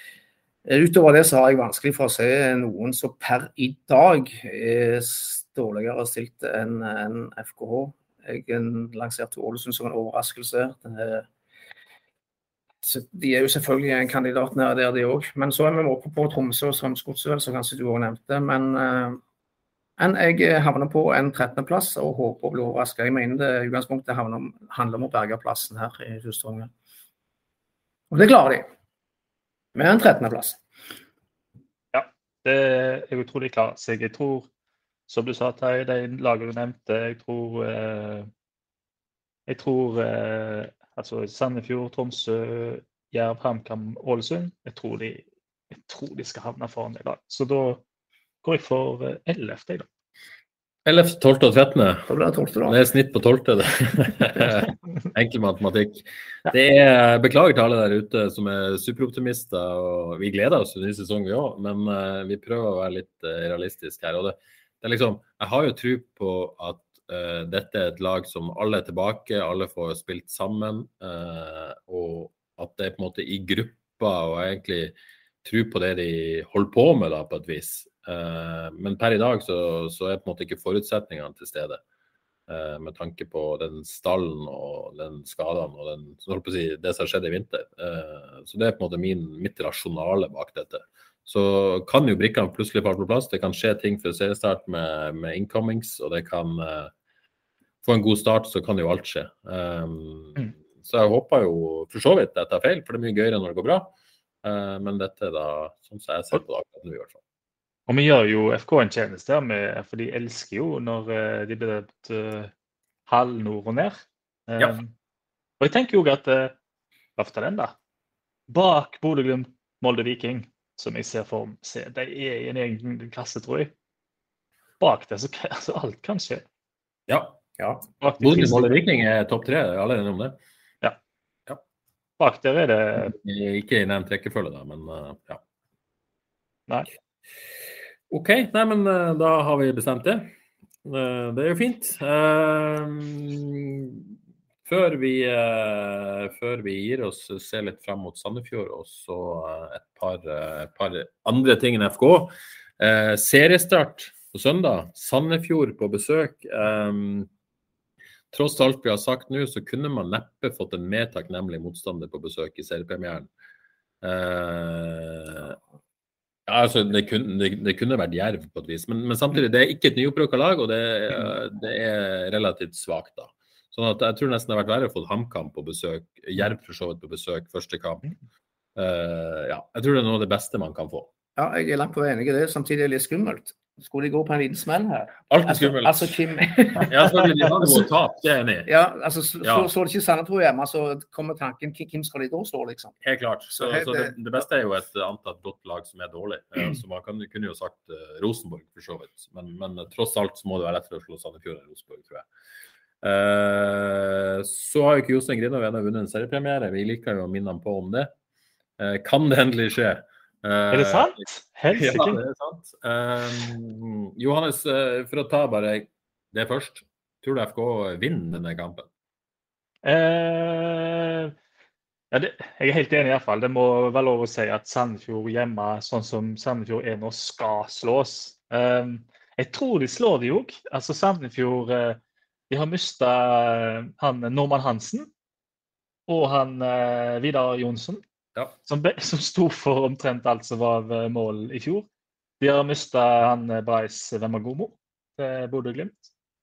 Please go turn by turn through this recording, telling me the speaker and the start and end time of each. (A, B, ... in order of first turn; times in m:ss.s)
0:00.6-0:11.2 A
0:12.8-0:19.2 A
0:20.0-0:26.7 A
0:28.1-0:28.7 A
0:29.7-0:30.6 A
0:31.9-0:34.5 B
0:35.1-0:38.3 B
0:39.5-0:47.8 B
0:48.4-0:49.8 B
0:50.8-0:52.1 C
0:52.1-0:52.8 A
0:52.6-1:21.8 C
1:22.5-1:36.9 C
1:37.8-1:47.2 C
1:47.9-1:52.5 B
1:53.1-1:54.9 B
1:55.6-1:56.5 B
1:57.2-1:57.8 B
1:58.5-2:03.7 B
2:04.8-2:06.4 B
2:07.1-2:07.4 C
2:08.0-2:08.8 B
2:08.2-2:10.4 C
2:12.2-2:13.1 B
2:13.0-2:15.4 C
2:18.1-2:20.3 C
2:20.8-2:24.1 C
2:24.6-2:37.3 C
2:38.3-2:43.3 C
2:44.0-2:45.6 C
2:46.5-2:58.0 C
2:58.8-3:01.1 C
3:01.4-3:07.8 A
3:05.3-3:08.7 C
3:08.6-3:12.9 A
3:09.4-3:09.7 C
3:13.0-3:22.3 C
3:13.5-3:14.2 A
3:23.0-3:28.1 C
3:28.8-3:31.2 C
3:30.7-3:32.2 B
3:31.7-3:38.9 C
3:39.8-3:41.3 B
3:42.1-3:52.0 B
3:52.5-3:55.1 B
3:56.1-3:58.0 B
3:58.7-4:01.8 B
4:02.4-4:06.1 B